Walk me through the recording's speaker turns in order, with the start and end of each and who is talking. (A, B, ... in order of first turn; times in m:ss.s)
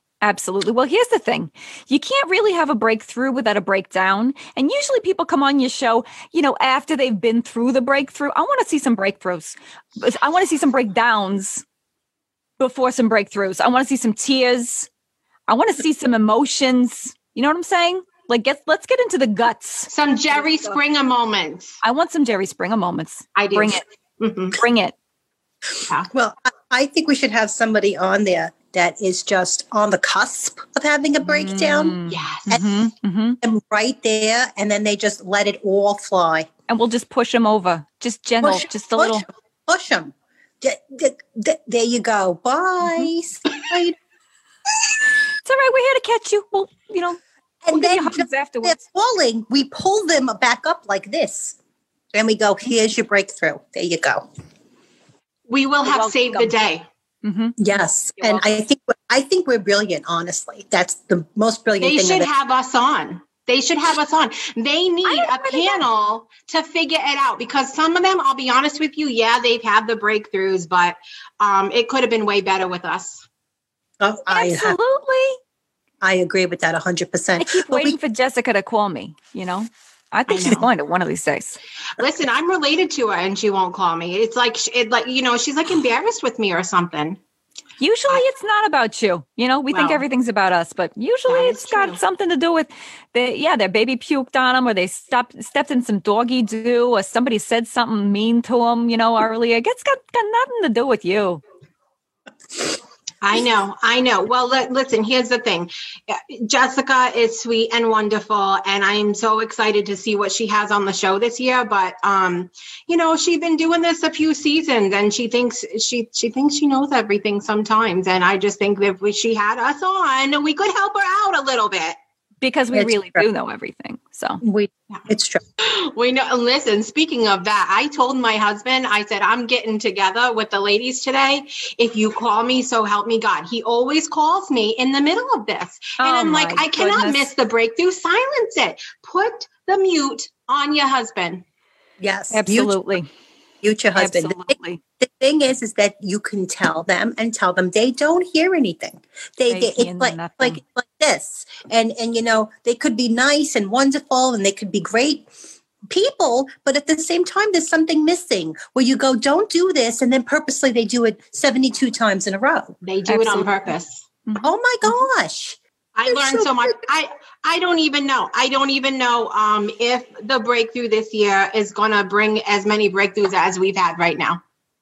0:00.2-0:11.6 A
0:12.6-0:14.9 A
0:15.5-0:19.9 A
0:19.9-0:21.7 B
0:21.8-0:23.8 A
0:23.4-0:24.6 B
0:24.5-0:25.0 A
0:26.1-0:32.0 C
0:31.2-0:33.4 A
0:32.1-0:32.5 B
0:33.4-0:36.5 C
0:36.7-0:39.2 A
0:38.4-0:44.0 C
0:45.4-0:47.2 A
0:47.6-0:51.6 C
0:47.7-0:48.8 A
0:52.1-0:54.3 C
0:55.5-0:56.8 B
0:57.2-0:57.6 A
0:57.6-1:02.3 C
0:58.2-0:58.5 A
1:01.8-1:13.2 B
1:05.0-1:05.8 A
1:14.0-1:14.8 C
1:14.3-1:15.4 A
1:16.0-1:18.0 C
1:17.4-1:21.6 A
1:20.3-1:20.7 B
1:22.0-1:27.2 B
1:27.8-1:41.4 A
1:29.7-1:30.0 B
1:31.3-1:32.0 B
1:43.2-2:02.0 B
2:02.4-2:04.4 A
2:02.7-2:03.2 C
2:04.4-2:05.4 C
2:05.6-2:21.4 B
2:16.0-2:17.3 A
2:22.0-2:22.8 C
2:22.3-2:23.1 A
2:23.6-2:35.3 C
2:23.9-2:24.8 A
2:29.5-2:30.6 A
2:35.9-2:42.8 C
2:42.8-2:44.0 B
2:43.1-2:43.7 A
2:44.4-2:46.8 C
2:46.0-2:54.4 B